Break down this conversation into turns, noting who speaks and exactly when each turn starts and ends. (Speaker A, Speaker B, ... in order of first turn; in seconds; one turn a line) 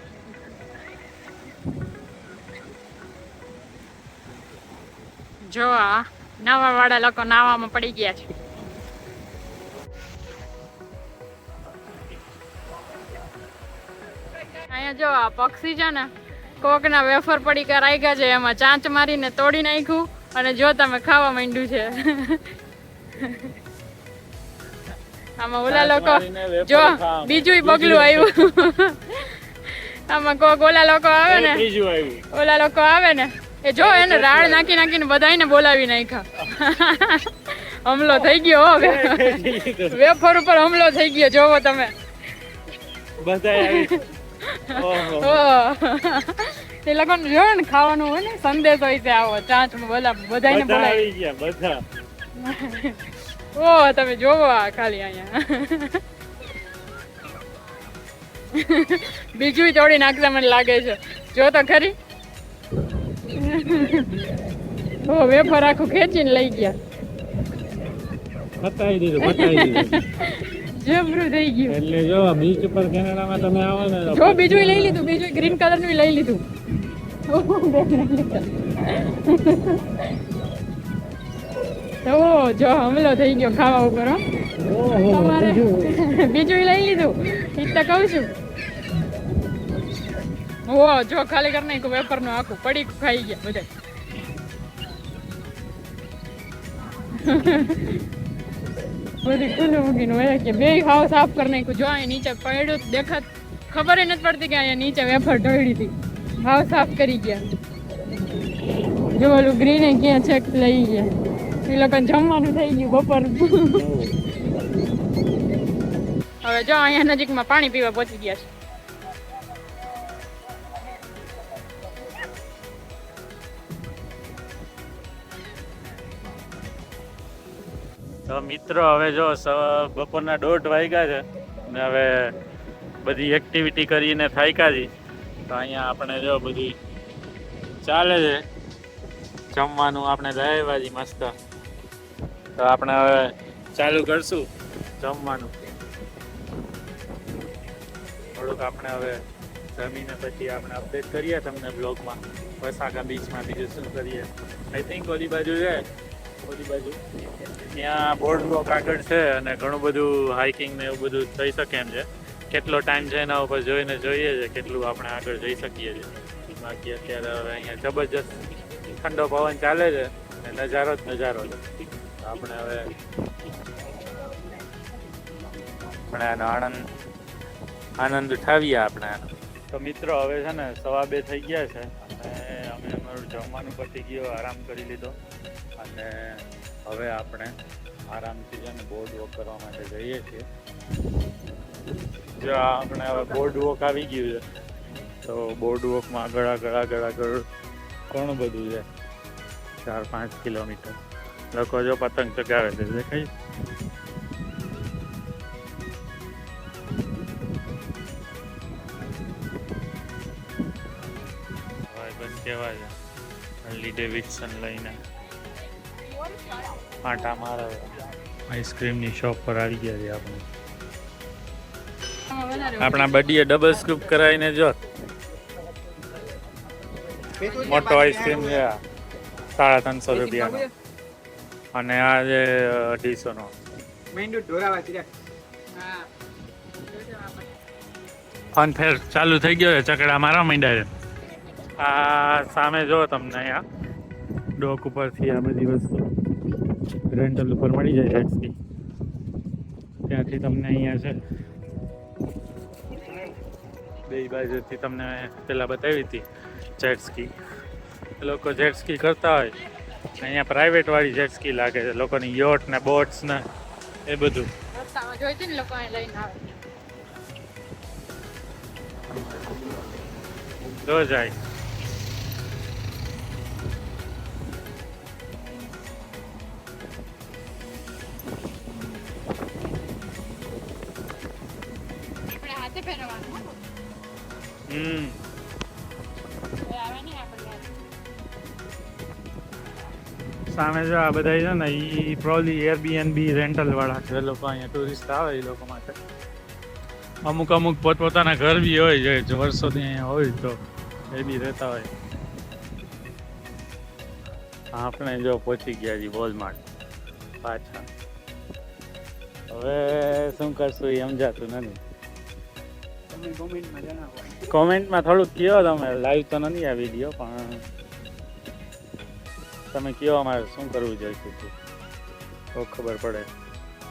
Speaker A: 5.5-8.3
Speaker A: 14.6-22.5
Speaker A: 23.2-23.6
Speaker A: 25.4-31.7
Speaker B: 25.7-28.5
Speaker B: 31.3-32.2
Speaker A: 32.3-41.9
Speaker B: 33.8-34.8
Speaker B: 38.1-40.0
Speaker B: 43.2-44.0
Speaker A: 43.5-51.0
Speaker B: 44.7-45.4
Speaker B: 50.5-51.8
Speaker A: 52.4-56.0
Speaker A: 58.5-62.0
Speaker A: 63.2-64.3
Speaker A: 65.1-66.8
Speaker B: 68.6-70.1
Speaker A: 69.2-71.8
Speaker B: 71.7-75.1
Speaker A: 74.1-76.4
Speaker A: 77.3-80.2
Speaker A: 82.0-84.2
Speaker B: 84.6-86.0
Speaker A: 84.9-88.3
Speaker A: 90.7-93.7
Speaker A: 97.1-98.1
Speaker A: 99.2-107.5
Speaker A: 109.0-111.1
Speaker A: 111.7-114.1
Speaker A: 116.4-118.5
Speaker B: 128.3-132.3
Speaker B: 133.0-134.9
Speaker B: 135.5-136.8
Speaker B: 137.8-138.4
Speaker B: 139.5-141.3
Speaker B: 142.6-145.6
Speaker B: 148.3-149.2
Speaker B: 149.7-155.8
Speaker B: 156.4-171.6
Speaker B: 172.2-172.9
Speaker B: 176.1-176.9
Speaker B: 178.0-185.2
Speaker B: 185.8-187.6
Speaker B: 188.1-190.4
Speaker B: 192.3-194.4
Speaker B: 195.2-197.5
Speaker B: 198.1-198.9
Speaker B: 199.8-201.0
Speaker B: 201.5-203.3
Speaker B: 211.9-212.9
Speaker B: 213.6-215.0
Speaker B: 217.0-218.0
Speaker B: 218.5-220.4
Speaker A: 222.3-223.1
Speaker B: 222.8-224.8
Speaker A: 227.3-228.5
Speaker B: 227.6-228.8
Speaker B: 229.5-230.7
Speaker B: 231.7-233.6
Speaker A: 234.1-235.1
Speaker A: 235.8-236.1
Speaker A: 237.0-237.4
Speaker B: 238.5-240.9
Speaker B: 241.8-243.6
Speaker B: 244.6-246.1
Speaker B: 247.1-248.5
Speaker B: 250.1-251.2
Speaker B: 254.1-256.3
Speaker B: 256.8-257.3
Speaker B: 258.2-259.6
Speaker B: 260.2-263.5
Speaker B: 264.1-264.5
Speaker A: 264.7-266.5
Speaker B: 270.7-271.4
Speaker A: 282.3-283.5
Speaker B: 284.7-285.2
Speaker A: 286.6-287.8
Speaker B: 290.5-296.0
Speaker B: 297.3-300.6
Speaker B: 301.1-301.9
Speaker B: 304.7-306.6
Speaker B: 307.4-307.9
Speaker B: 309.5-311.8
Speaker A: 313.1-314.3
Speaker B: 314.4-317.6
Speaker B: 319.7-321.5
Speaker B: 322.6-323.3